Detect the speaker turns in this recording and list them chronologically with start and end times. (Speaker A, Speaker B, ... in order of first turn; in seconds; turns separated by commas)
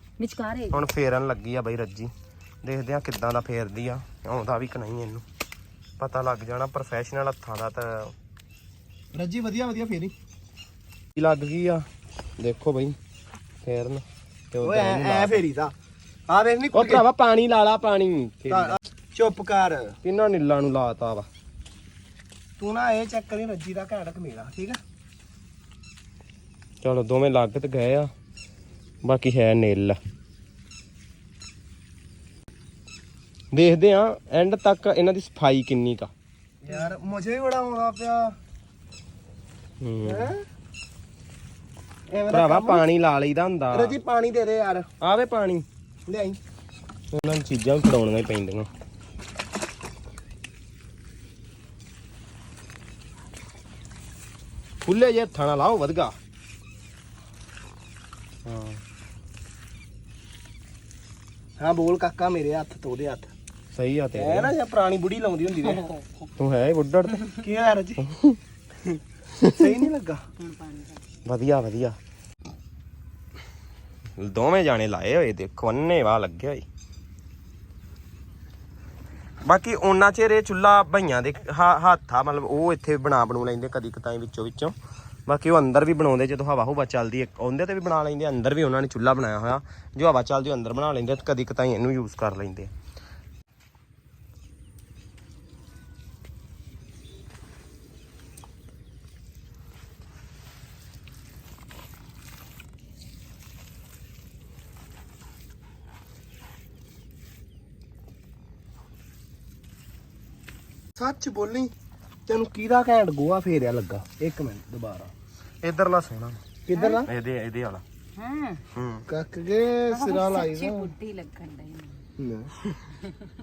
Speaker A: 0.2-0.8, Speaker B: 0.7-2.1, Speaker B: 2.6-5.2, Speaker B: 6.0-8.1, Speaker C: 9.1-10.1, Speaker B: 11.2-11.8, Speaker B: 12.4-12.9, Speaker B: 13.6-15.4, Speaker C: 14.6-15.7, Speaker C: 16.3-17.0, Speaker B: 16.7-18.8, Speaker C: 18.5-19.9, Speaker B: 20.0-21.3, Speaker C: 22.6-24.8, Speaker B: 26.8-28.1, Speaker B: 29.0-30.0, Speaker B: 33.5-36.1, Speaker C: 36.6-38.4, Speaker B: 39.8-40.3, Speaker C: 40.0-40.4, Speaker C: 42.1-42.9, Speaker B: 42.3-44.0, Speaker C: 43.7-44.9, Speaker B: 45.0-45.6, Speaker C: 46.1-46.4, Speaker B: 47.1-48.7, Speaker B: 54.8-56.1, Speaker B: 58.5-58.8, Speaker C: 61.6-63.3, Speaker B: 63.7-64.5, Speaker C: 64.1-65.8, Speaker B: 66.4-67.2, Speaker C: 67.4-68.0, Speaker B: 68.1-68.4, Speaker C: 69.5-70.2, Speaker A: 70.4-71.0, Speaker B: 71.2-72.0, Speaker B: 74.2-76.6, Speaker B: 79.4-84.7, Speaker B: 85.3-92.7, Speaker C: 111.0-111.7, Speaker C: 112.3-115.1, Speaker B: 115.6-116.4, Speaker C: 116.7-117.1, Speaker A: 116.7-117.0, Speaker B: 117.0-117.8, Speaker A: 118.2-118.6, Speaker B: 118.7-119.0, Speaker C: 119.1-120.9, Speaker A: 119.9-122.0, Speaker C: 122.2-122.5